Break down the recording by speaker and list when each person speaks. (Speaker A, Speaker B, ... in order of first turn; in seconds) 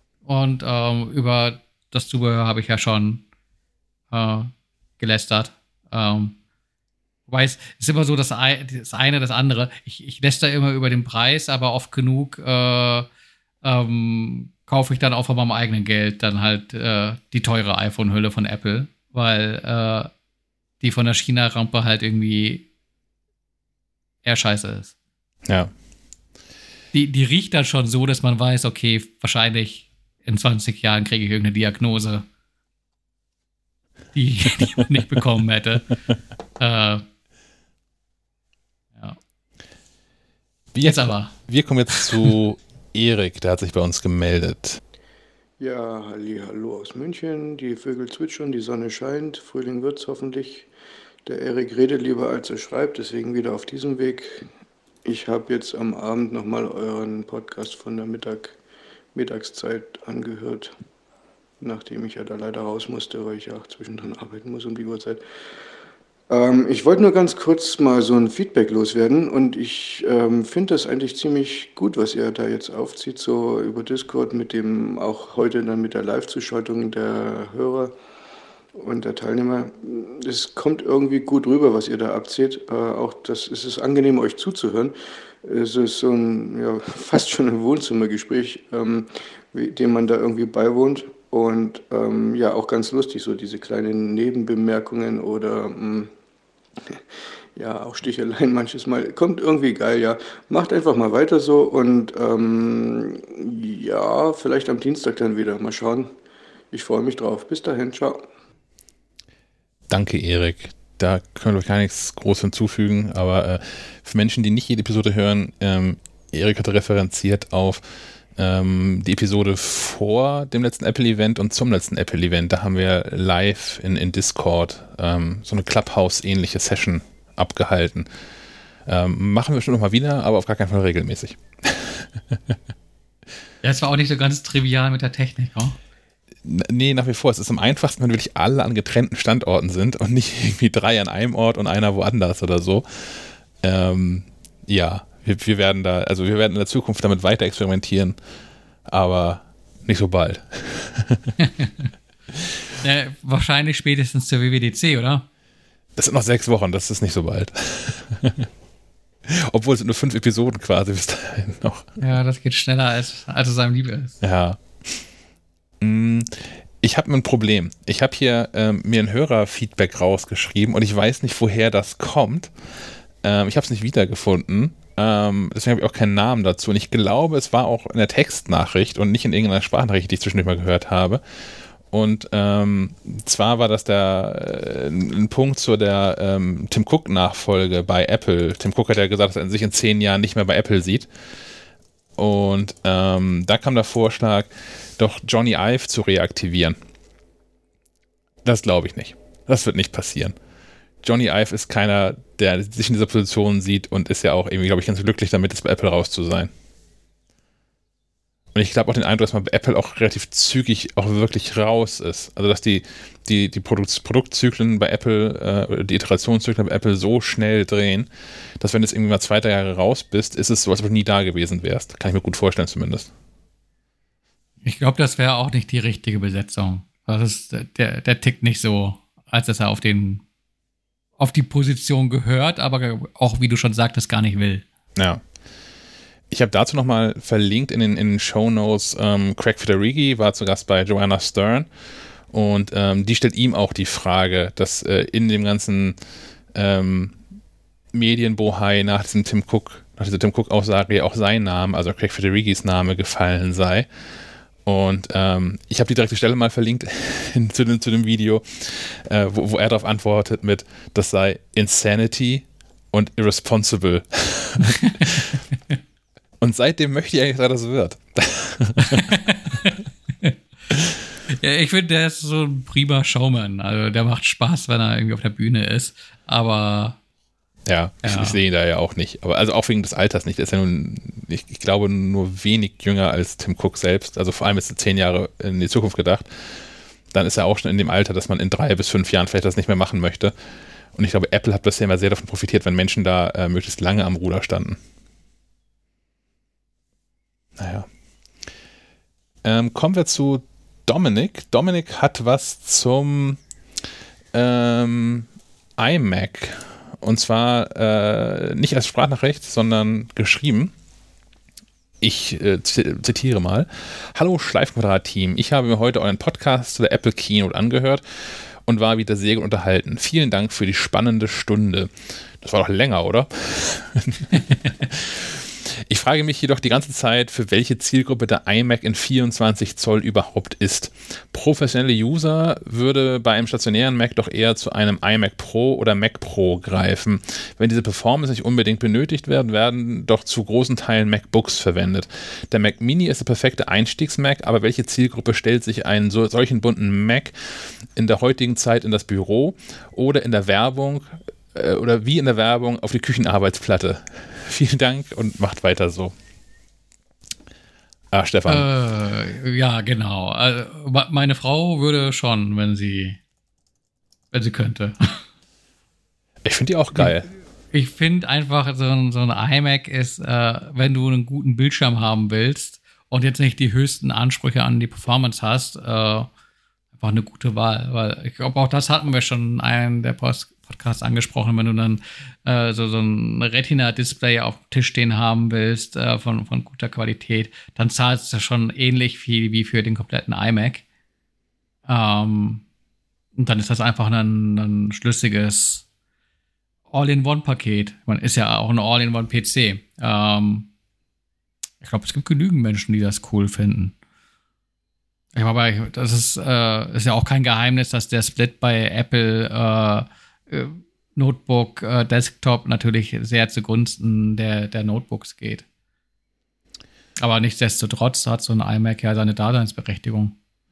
Speaker A: 0.2-3.2, 4.1-6.3, 7.3-13.1, 13.6-20.1, 20.8-22.7, 24.2-24.9, 26.9-32.2, 34.1-35.9, 36.6-37.0, 40.8-41.3, 133.6-135.8, 151.4-151.8, 152.8-155.2, 162.0-164.2, 224.6-230.2, 231.2-234.6, 264.7-265.1, 268.8-270.3, 271.3-277.0, 278.0-278.4, 358.5-363.2, 364.3-365.2, 367.7-376.3, 377.0-390.8, 391.9-392.6, 393.4-395.8, 396.9-400.7, 401.8-403.9, 405.3-415.6, 417.2-420.3
Speaker B: 25.4-25.7, 40.7-44.8, 109.9-117.8, 118.4-128.1, 128.8-132.5, 136.4-142.8, 143.6-148.2, 148.9-151.3, 155.9-158.5, 159.3-162.0, 164.2-164.6, 165.8-172.5, 173.2-181.2, 181.9-191.1, 192.2-196.8, 198.4-200.3, 201.0-206.5, 208.5-223.1, 234.9-235.2, 236.3-241.7, 242.3-246.0, 246.5-247.2, 247.9-253.9, 254.7-265.3, 266.4-269.1, 277.6-286.6, 287.1-290.3, 290.9-294.8, 297.6-297.9, 299.4-303.4, 304.3-310.7, 312.0-318.0, 318.6-347.3, 347.9-356.1, 358.1-358.7, 366.4-367.3
Speaker C: 45.6-50.7, 51.2-54.4, 55.0-58.6, 59.1-60.7, 61.6-65.2, 66.3-77.9, 78.7-96.1, 97.5-106.1, 106.7-108.2